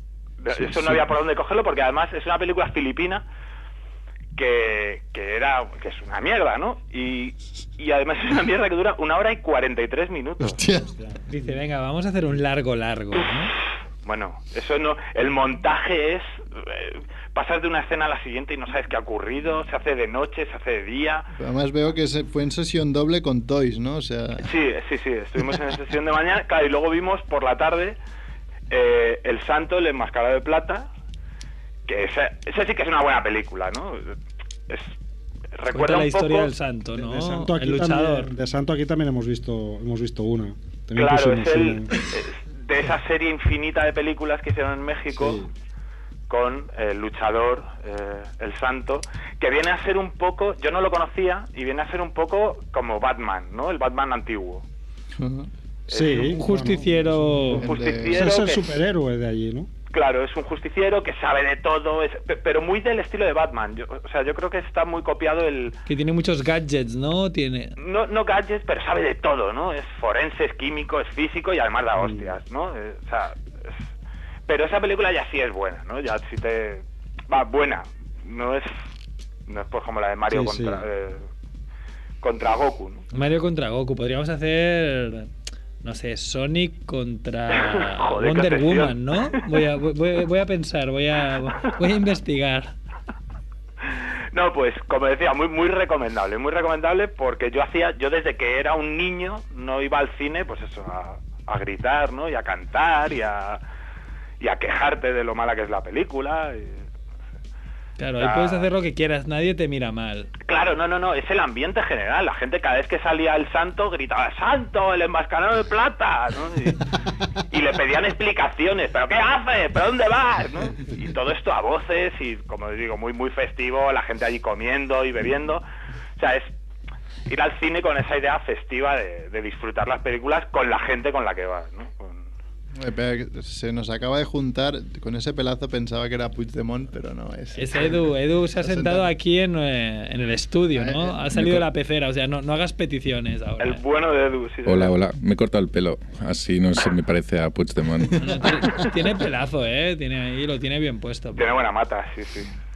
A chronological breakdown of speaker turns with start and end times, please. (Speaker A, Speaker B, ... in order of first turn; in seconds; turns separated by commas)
Speaker A: 0.4-3.2, Speaker B: 0.6-1.0, Speaker A: 4.3-10.6, Speaker B: 10.4-10.9, Speaker C: 10.9-11.5, Speaker D: 11.3-13.4, Speaker A: 14.0-21.3, Speaker B: 21.4-24.5, Speaker A: 24.4-28.0, Speaker A: 28.7-30.9, Speaker A: 31.9-34.1, Speaker A: 35.5-36.5, Speaker D: 35.7-38.3, Speaker C: 37.0-42.0, Speaker B: 37.2-37.5, Speaker A: 41.0-45.4, Speaker C: 45.1-45.5, Speaker A: 46.3-54.6, Speaker B: 55.2-55.5, Speaker A: 55.9-56.3, Speaker C: 55.9-59.7, Speaker D: 56.1-57.6, Speaker B: 57.5-58.4, Speaker A: 57.6-58.8, Speaker A: 59.9-65.8, Speaker D: 65.9-67.7, Speaker A: 67.8-73.7, Speaker C: 72.0-72.3, Speaker A: 74.5-78.7, Speaker A: 79.5-81.2, Speaker C: 80.3-80.8, Speaker A: 82.2-83.0, Speaker D: 83.1-92.7, Speaker A: 87.5-89.4, Speaker A: 94.3-103.6, Speaker A: 104.4-106.8, Speaker D: 108.0-110.3, Speaker A: 108.2-108.7, Speaker A: 110.5-125.6, Speaker A: 126.2-126.5, Speaker A: 127.3-132.2, Speaker B: 132.8-139.1, Speaker D: 137.5-143.8, Speaker B: 140.7-141.7, Speaker A: 143.6-144.9, Speaker E: 144.7-148.2, Speaker D: 148.2-151.4, Speaker B: 148.2-148.9, Speaker A: 151.4-152.5